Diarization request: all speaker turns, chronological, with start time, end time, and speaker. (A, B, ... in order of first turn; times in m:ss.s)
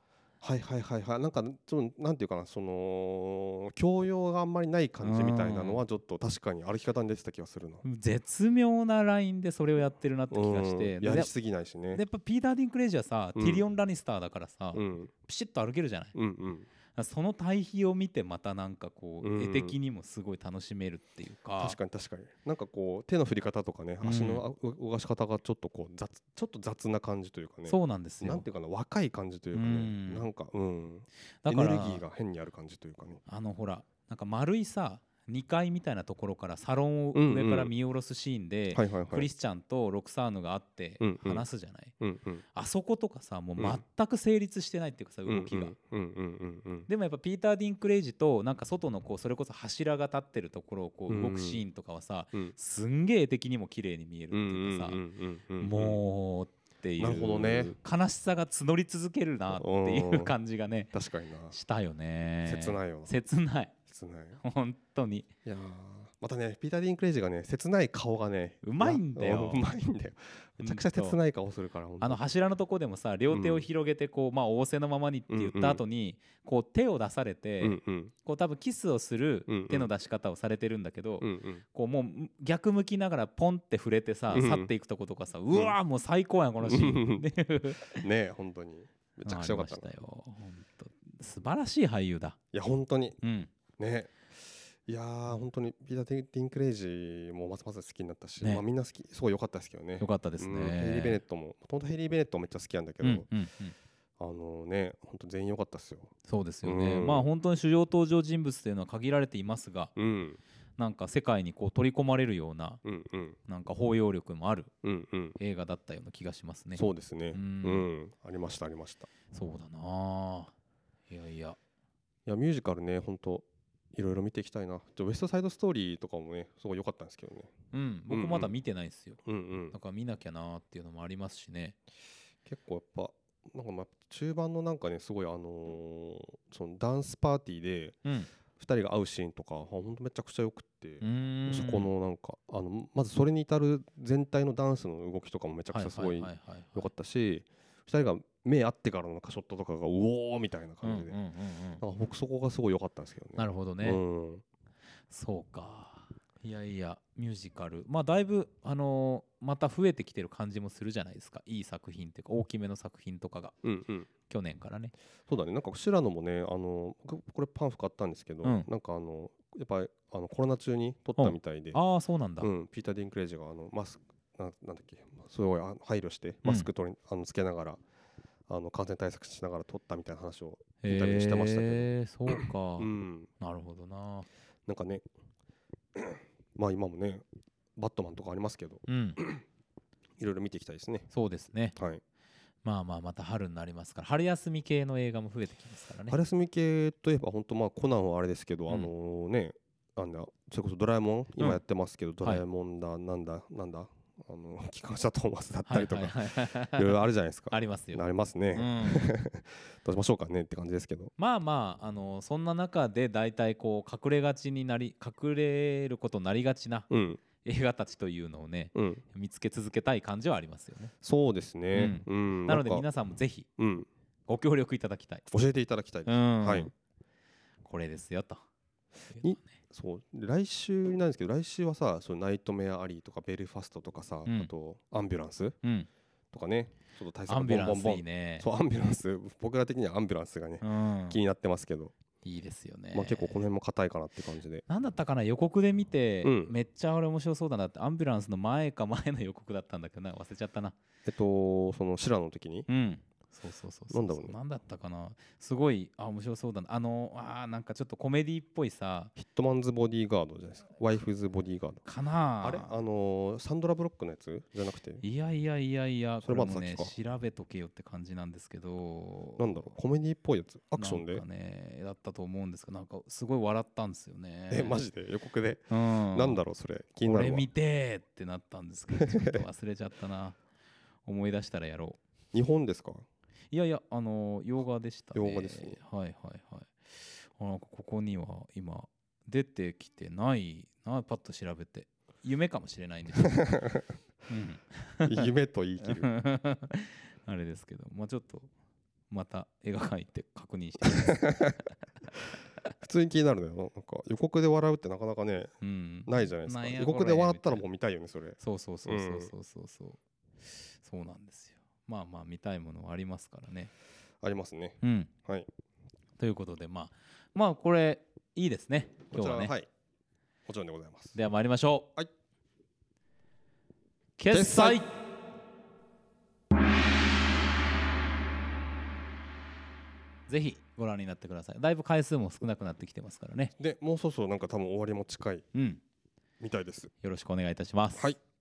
0:00.4-0:07.8 A
0:05.0-0:05.8 B
0:07.8-0:11.3 B
0:10.3-0:12.0 A
0:11.9-0:16.1 B
0:13.4-0:13.6 A
0:14.7-0:15.1 A
0:16.1-0:16.7 A
0:17.0-0:21.8 B
0:19.2-0:19.8 A
0:21.6-0:33.2 A
0:24.0-0:24.4 B
0:27.7-0:28.4 B
0:29.5-0:30.3 B
0:31.4-0:32.0 B
0:33.3-0:41.9 B
0:37.1-0:37.7 A
0:38.7-0:39.3 A
0:41.0-0:41.4 A
0:42.0-0:42.4 A
0:42.5-0:45.7 B
0:45.3-0:46.9 A
0:46.9-0:55.0 B
0:51.1-0:51.6 A
0:54.3-0:56.0 A
0:55.6-1:00.9 B
0:57.0-0:57.8 A
0:59.5-1:00.3 A
1:00.9-1:01.6 A
1:01.5-1:03.7 B
1:02.4-1:03.1 A
1:03.8-1:04.4 A
1:04.4-1:05.3 B
1:05.4-1:12.2 A
1:08.6-1:09.7 B
1:10.6-1:11.2 B
1:12.0-1:28.0 B
1:13.3-1:13.6 A
1:15.3-1:15.8 A
1:17.6-1:18.1 A
1:19.5-1:19.9 A
1:21.2-1:21.6 A
1:24.3-1:24.7 A
1:25.5-1:25.8 A
1:26.6-1:27.2 A
1:27.9-1:29.9 A
1:29.2-1:32.4 B
1:32.5-1:33.2 A
1:33.2-1:33.5 B
1:33.8-1:43.3 A
1:40.0-1:41.2 B
1:43.0-1:43.7 B
1:44.2-1:46.1 A
1:46.3-1:49.9 B
1:46.6-1:47.3 A
1:50.0-1:50.4 A
1:50.8-1:52.8 B
1:52.8-1:53.4 A
1:53.5-1:54.7 B
1:54.8-1:55.4 A
1:55.4-1:57.9 B
1:56.8-1:59.1 A
1:59.3-2:00.5 B
2:01.1-2:01.6 B
2:02.2-2:07.5 A
2:07.7-2:09.2 B
2:08.1-2:08.5 A
2:09.2-2:09.8 A
2:09.7-2:11.8 B
2:12.4-2:18.0 A
2:18.6-2:31.2 A
2:21.0-2:21.9 B
2:25.7-2:26.9 B
2:30.8-2:31.8 B
2:31.8-2:34.4 A
2:33.4-2:34.0 B
2:35.1-2:43.6 B
2:43.6-2:44.1 A
2:44.2-2:44.9 B
2:45.3-2:51.8 A
2:51.2-2:52.5 B
2:52.4-2:57.8 A
2:58.5-3:03.3 A
3:00.8-3:04.3 B
3:04.7-3:05.0 A
3:05.9-3:07.2 A
3:07.8-3:09.4 A
3:08.9-3:09.2 B
3:10.2-3:11.1 A
3:11.1-3:11.8 B
3:11.8-3:12.0 A
3:12.6-3:16.2 B
3:16.1-3:31.1 A
3:25.6-3:27.0 B
3:27.5-3:29.1 B
3:31.2-3:40.9 B
3:36.9-3:37.2 A
3:38.7-3:39.0 A
3:41.0-3:42.8 A
3:41.7-3:43.5 B
3:43.6-3:43.9 A
3:44.3-3:45.2 B
3:45.3-3:46.7 A
3:46.0-3:46.7 B
3:47.6-3:48.4 B
3:49.1-3:49.5 B
3:49.2-3:55.6 A
3:55.6-3:55.9 B
3:56.3-4:01.9 A
3:57.3-3:58.4 B
4:00.6-4:01.2 B
4:02.2-4:03.4 B
4:02.9-4:04.6 A
4:04.7-4:10.8 B
4:06.2-4:06.5 A
4:11.0-4:12.7 A
4:12.7-4:19.1 B
4:13.9-4:14.4 A
4:19.2-4:21.8 A
4:21.8-4:22.7 B
4:22.4-4:25.0 A
4:25.0-4:29.5 B
4:26.2-4:26.9 A
4:29.4-4:31.2 A
4:30.8-4:34.8 B
4:34.5-4:37.5 A
4:35.7-4:36.4 B
4:37.0-4:40.4 B
4:38.9-4:39.4 A
4:41.0-4:42.0 B
4:42.3-4:43.0 A
4:43.5-4:53.4 B
4:45.1-4:45.8 A
4:53.2-4:53.8 A
4:54.3-4:58.5 B
4:55.0-4:56.1 A
4:59.1-5:01.3 B
5:00.8-5:01.6 A
5:02.8-5:05.5 A
5:05.6-5:07.6 B
5:06.0-5:09.3 A
5:08.4-5:10.0 B
5:10.5-5:13.7 B
5:14.2-5:15.5 A
5:14.8-5:15.1 B
5:16.2-5:19.5 B
5:19.1-5:19.7 A
5:20.4-5:21.2 A
5:21.1-5:21.9 B
5:24.2-5:24.9 B
5:24.3-5:24.8 A
5:30.3-5:33.5 B
5:33.6-5:35.4 A
5:35.5-5:35.8 B
5:36.4-5:36.9 A
5:37.0-5:38.1 B